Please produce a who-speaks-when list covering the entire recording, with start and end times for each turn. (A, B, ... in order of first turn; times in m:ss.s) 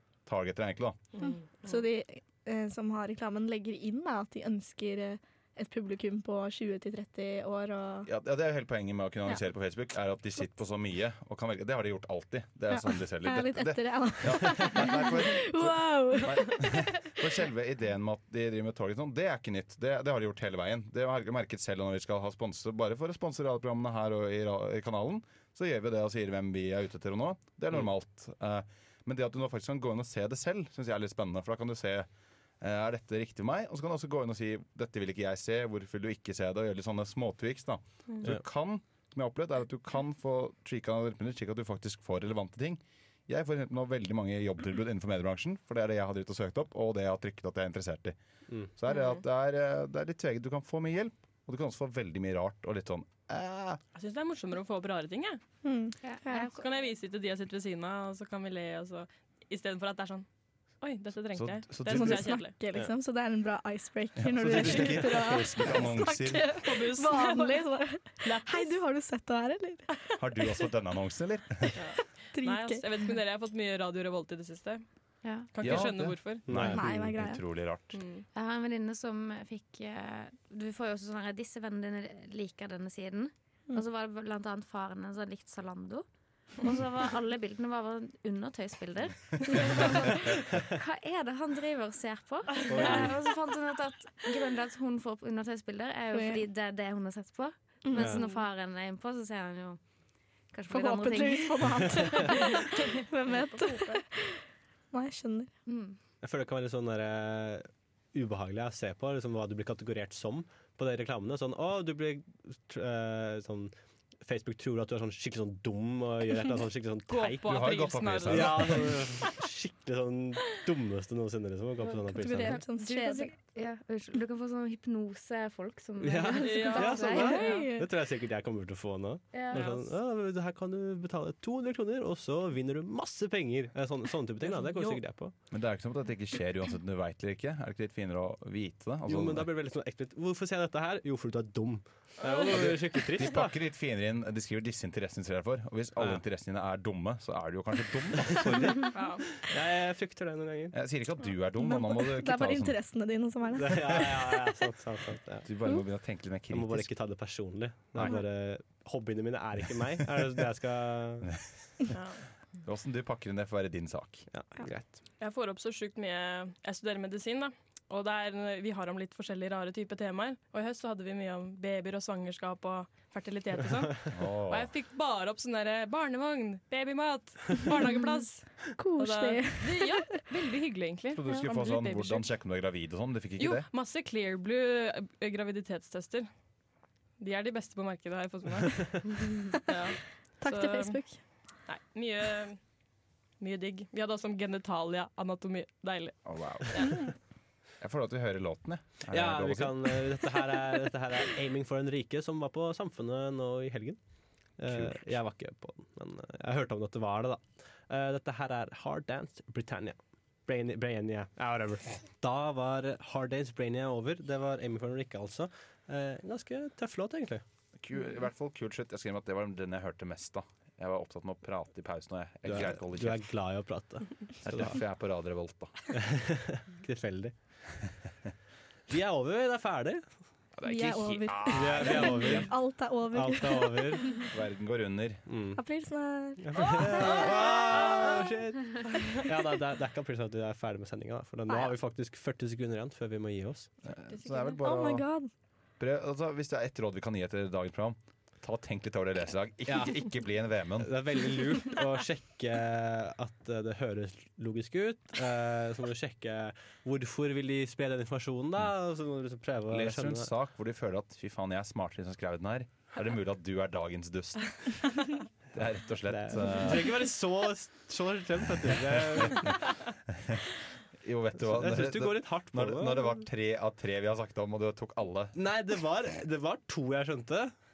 0:00.2-0:01.0 A
0:01.2-0:08.1 B
0:08.0-0:32.1 A
0:12.8-0:17.1 B
0:32.6-0:48.2 A
0:48.8-0:53.8 A
0:53.9-0:55.4 C
0:55.6-0:56.5 B
0:56.0-0:56.6 D
0:56.5-1:00.2 C
1:00.8-1:02.5 C
1:01.3-1:02.4 A
1:01.8-1:10.6 B
1:04.2-1:06.5 A
1:06.5-1:08.8 C
1:10.2-1:11.8 A
1:11.8-1:14.8 C
1:12.3-1:12.8 B
1:15.2-1:15.9 D
1:15.5-1:16.5 C
1:15.6-1:18.0 A
1:16.5-1:16.8 E
1:16.7-1:17.4 B
1:17.9-1:18.2 C
1:18.3-1:26.0 D
1:26.6-1:39.8 D
1:32.7-1:33.2 E
1:32.7-1:33.1 C
1:36.1-1:36.4 B
1:37.8-1:38.2 B
1:37.9-1:38.2 E
1:40.5-1:42.7 D
1:40.7-1:45.5 B
1:43.4-1:44.0 C
1:45.7-1:46.0 D
1:46.2-1:57.6 E
1:57.1-1:59.0 C
1:57.4-1:58.9 A
1:58.3-2:02.6 E
2:02.1-2:03.3 B
2:02.2-2:07.5 D
2:06.0-2:15.3 E
2:06.4-2:07.7 C
2:07.0-2:07.9 B
2:09.3-2:09.9 D
2:14.6-2:15.0 C
2:15.5-2:19.5 A
2:19.1-2:23.5 E
2:22.4-2:29.0 A
2:26.0-2:26.2 E
2:28.9-2:29.2 C
2:29.4-2:30.8 E
2:30.7-2:32.8 A
2:31.6-2:34.5 B
2:33.6-2:35.5 E
2:35.4-2:36.9 A
2:36.5-2:41.3 E
2:41.2-2:41.5 A
2:41.9-2:42.2 C
2:42.6-2:44.3 A
2:44.3-2:45.0 E
2:45.2-3:02.2 C
2:54.1-2:54.7 A
2:58.8-3:00.2 B
3:01.1-3:03.7 A
3:03.4-3:06.3 C
3:07.2-3:11.0 C
3:10.4-3:11.2 B
3:11.6-3:12.6 C
3:13.4-3:16.8 C
3:16.2-3:17.0 A
3:17.8-3:20.0 A
3:19.1-3:24.0 E
3:24.6-3:37.4 E
3:24.7-3:25.2 A
3:37.8-3:43.2 A
3:42.4-3:44.8 E
3:44.4-3:45.8 A
3:45.9-3:47.3 E
3:48.9-3:50.1 E
3:50.5-3:52.5 A
3:50.6-3:54.3 B
3:51.5-3:52.5 E
3:53.1-3:54.1 E
3:54.3-3:55.2 A
3:55.3-3:55.6 E
3:55.6-3:58.4 B
3:56.4-4:03.7 E
4:01.5-4:01.7 B
4:03.8-4:05.1 A
4:04.1-4:04.6 C
4:04.6-4:05.3 B
4:05.8-4:10.9 A
4:09.7-4:10.0 E
4:10.8-4:20.3 E
4:19.7-4:24.7 A
4:25.5-4:27.0 A
4:26.1-4:29.6 E
4:29.2-4:29.5 A
4:30.1-4:30.4 A
4:31.0-4:35.4 A
4:31.4-4:33.1 E
4:35.3-4:37.5 E